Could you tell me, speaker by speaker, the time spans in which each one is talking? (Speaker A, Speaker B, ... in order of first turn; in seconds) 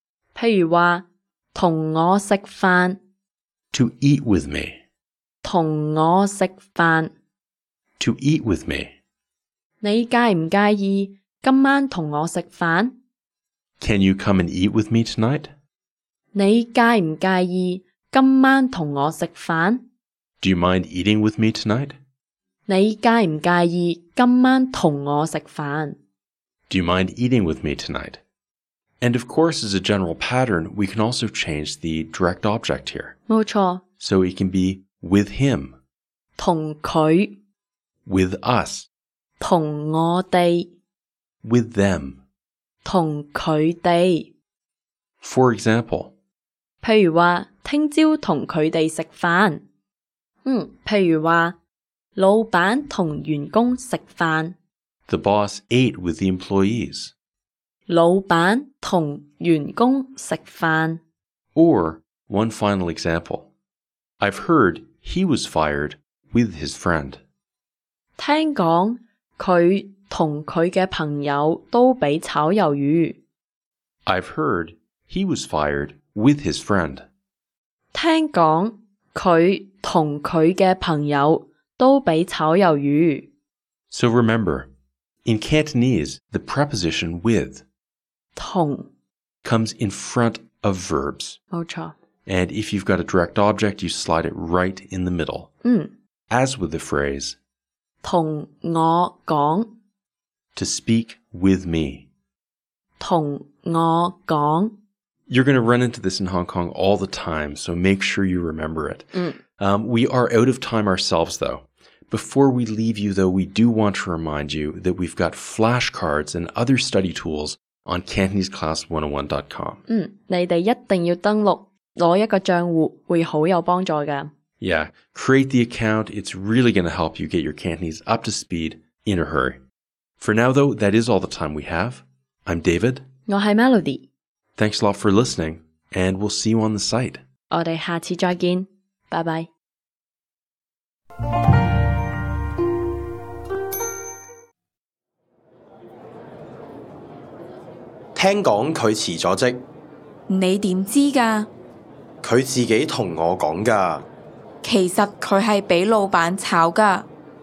Speaker A: 0.3-3.0, 5.4-7.1, 9.8-12.9, 16.3-19.8, 22.7-26.0, 33.3-33.8, 36.4-37.4, 39.4-40.7, 42.8-44.3, 46.8-49.6, 50.4-51.5, 52.1-54.5, 57.9-61.0, 68.2-73.2, 77.9-83.3, 88.3-88.9, 91.5-91.9, 95.6-95.9, 98.0-99.7, 103.0-104.7, 119.9-124.3, 133.3-134.1, 137.5-139.5
Speaker B: 3.7-4.8, 8.0-8.9, 13.8-15.5, 20.4-22.0, 26.7-28.2, 29.0-33.1, 34.0-35.8, 38.0-38.9, 41.4-42.2, 45.2-46.1, 55.1-57.1, 61.5-63.5, 64.2-67.2, 74.0-77.0, 83.9-84.7, 85.2-87.6, 89.4-91.4, 92.2-95.5, 96.3-97.4, 100.5-102.1, 105.3-119.8, 124.6-129.6, 130.2-133.0, 134.6-137.2
Speaker C: 148.1-149.6, 152.2-154.1
Speaker D: 150.3-151.5, 154.6-157.1